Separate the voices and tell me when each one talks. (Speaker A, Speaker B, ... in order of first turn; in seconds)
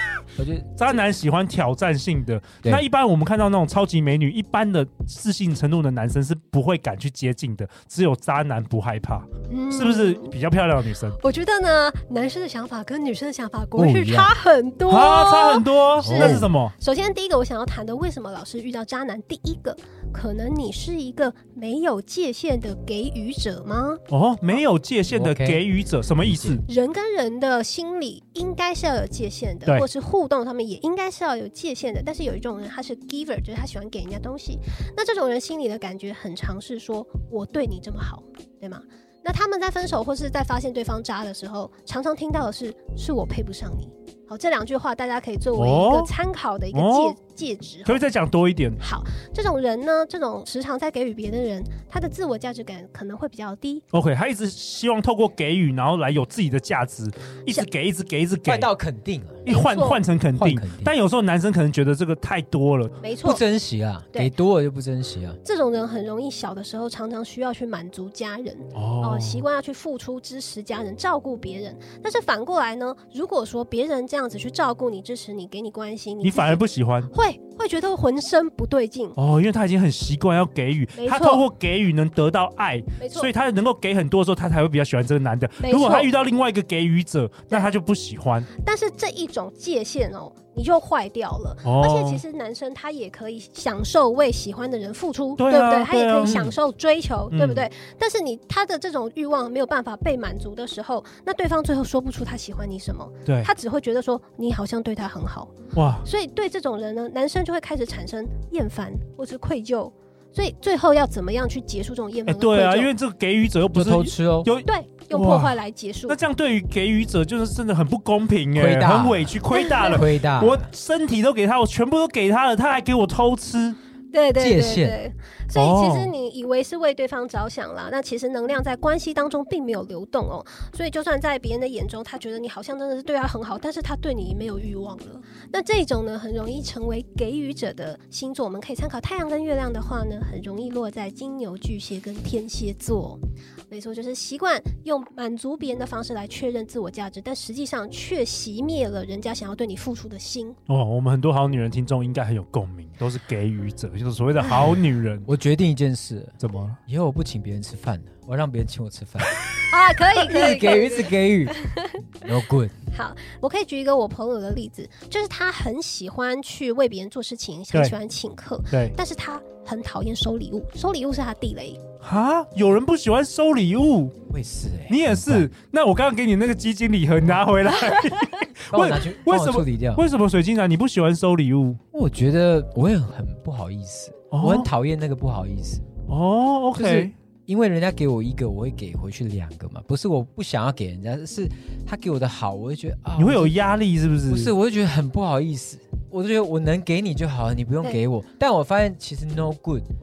Speaker A: 0.3-0.7, 13.8-14.3, 16.0-16.5, 25.1-25.6, 26.3-26.6, 58.5-59.5, 60.3-60.9, 63.2-65.4, 96.2-96.5, 113.7-114.5, 118.5-120.7, 124.4-125.0, 154.5-159.4, 160.1-161.6, 162.1-162.7, 174.3-175.5, 178.7-180.0, 181.9-185.8, 186.8-193.6, 194.3-199.9
Speaker B: 0.8-11.2, 14.9-16.7, 24.1-26.6, 45.5-46.1, 46.7-47.1, 47.8-48.8, 53.9-58.7, 59.4-63.0, 68.7-69.4, 76.2-77.1, 79.2-88.5, 91.6-92.2, 95.4-96.4, 97.3-97.7, 103.2-103.5, 105.7-106.0, 112.2-115.5, 116.1-123.8, 125.5-126.1, 150.7-155.3, 156.4-156.8, 172.0-174.1, 174.9-181.8, 184.3-184.7, 186.1-187.1, 193.2-194.5
Speaker C: 9.5-10.4, 11.2-24.0, 26.6-48.0, 48.8-53.8, 59.5-60.0, 63.0-63.4, 65.4-79.2, 81.0-81.5, 83.0-83.3, 85.6-86.1, 88.6-105.5, 106.0-112.9, 114.6-116.2, 119.5-120.1, 124.1-150.6, 159.7-162.0, 162.9-171.8